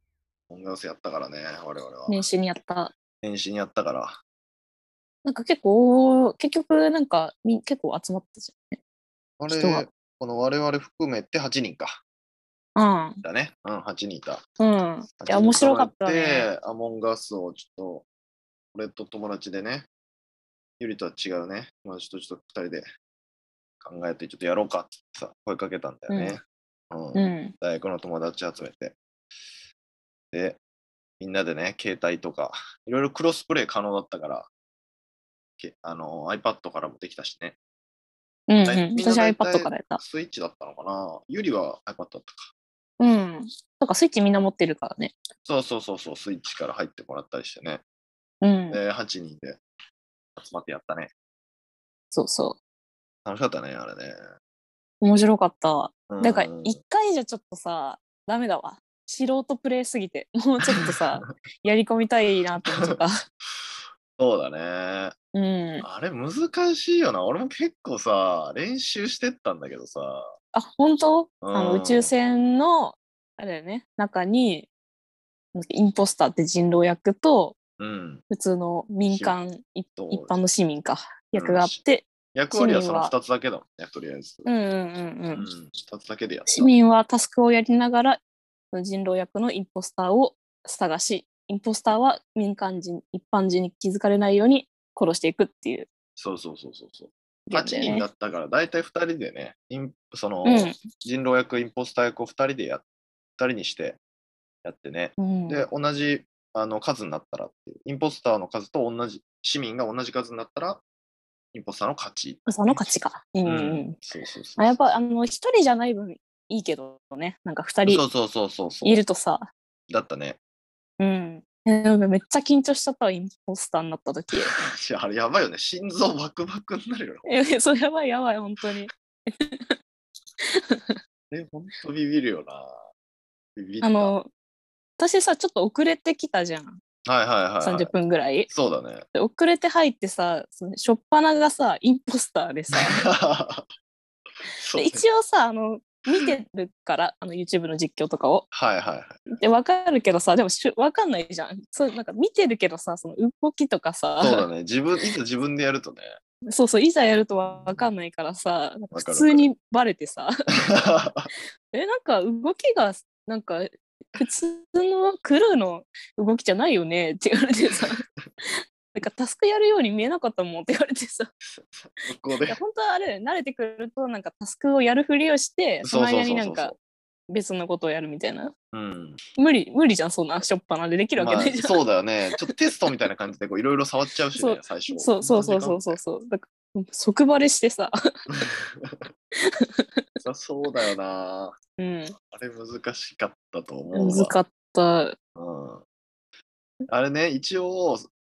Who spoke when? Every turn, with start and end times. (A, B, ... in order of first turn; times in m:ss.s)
0:00.5-0:02.2 A
0:02.1-0:02.9 B
0:03.2-0:04.2 A
0:05.2-0:08.8 B
0:09.4-0:12.0 A
0:09.5-0:09.9 B
0:12.8-0:13.2 B
0:13.2-0:14.4 A
0:14.6-0:16.5 B
0:15.2-0:18.1 A
0:18.7-0:19.9 A
0:20.8-0:22.8 A
0:23.8-0:29.0 A
0:26.1-0:26.4 B
0:27.1-0:27.5 B
0:30.3-0:30.6 A
0:31.2-0:34.5 A
0:35.6-0:37.6 A
0:38.5-0:40.0 B
0:38.6-0:42.5 A
0:43.0-0:45.1 B
0:45.5-0:47.8 A
0:48.4-0:48.8 B
0:48.7-0:49.6 A
0:50.4-0:51.1 A
0:52.1-0:52.6 B
0:53.2-0:54.2 A
0:55.0-1:03.2 B
0:56.1-0:56.8 A
1:02.7-1:03.0 A
1:03.5-1:05.2 A
1:05.3-1:05.9 B
1:05.8-1:10.3 A
1:10.5-1:14.7 B
1:11.4-1:12.1 A
1:15.5-1:17.6 B
1:17.8-1:18.2 A
1:18.3-1:23.1 B
1:19.0-1:19.4 A
1:20.0-1:20.4 A
1:21.4-1:21.8 A
1:22.3-1:24.5 A
1:24.5-1:25.5 B
1:25.4-1:26.7 A
1:26.5-1:28.2 B
1:28.7-1:35.9 B
1:36.2-1:42.8 A
1:37.5-1:38.1 B
1:40.4-1:40.8 B
1:43.4-1:44.0 A
1:44.6-1:50.8 A
1:45.2-1:45.7 B
1:51.5-1:52.9 A
1:52.5-1:54.0 B
1:53.4-1:55.0 A
1:54.6-1:58.0 B
1:57.8-1:59.0 A
1:58.8-1:59.5 B
1:59.9-2:00.4 A
2:01.0-2:04.5 B
2:04.6-2:07.3 A
2:07.3-2:09.6 B
2:11.3-2:12.8 A
2:13.6-2:14.2 A
2:13.8-2:14.3 B
2:15.0-2:16.8 B
2:17.1-2:17.9 A
2:17.6-2:18.5 B
2:18.5-2:19.0 A
2:19.1-2:23.0 B
2:22.9-2:23.7 A
2:24.5-2:25.0 A
2:24.7-2:28.5 B
2:28.5-2:29.3 A
2:29.3-2:34.5 B
2:34.2-2:36.1 A
2:36.5-2:40.3 B
2:37.5-2:37.8 A
2:38.9-2:39.5 A
2:40.7-2:41.3 A
2:41.7-2:48.0 B
2:48.9-2:51.3 B
2:51.4-2:52.6 A
2:52.5-2:56.7 B
2:55.8-2:56.8 A
2:57.3-2:58.5 B
2:58.7-2:59.2 A
2:59.4-3:01.8 B
3:01.2-3:06.0 A
3:04.4-3:07.9 B
3:08.3-3:09.1 A
3:10.2-3:11.6 A
3:11.8-3:12.1 B
3:12.3-3:14.4 A
3:13.9-3:15.2 B
3:15.4-3:15.8 A
3:16.9-3:18.1 A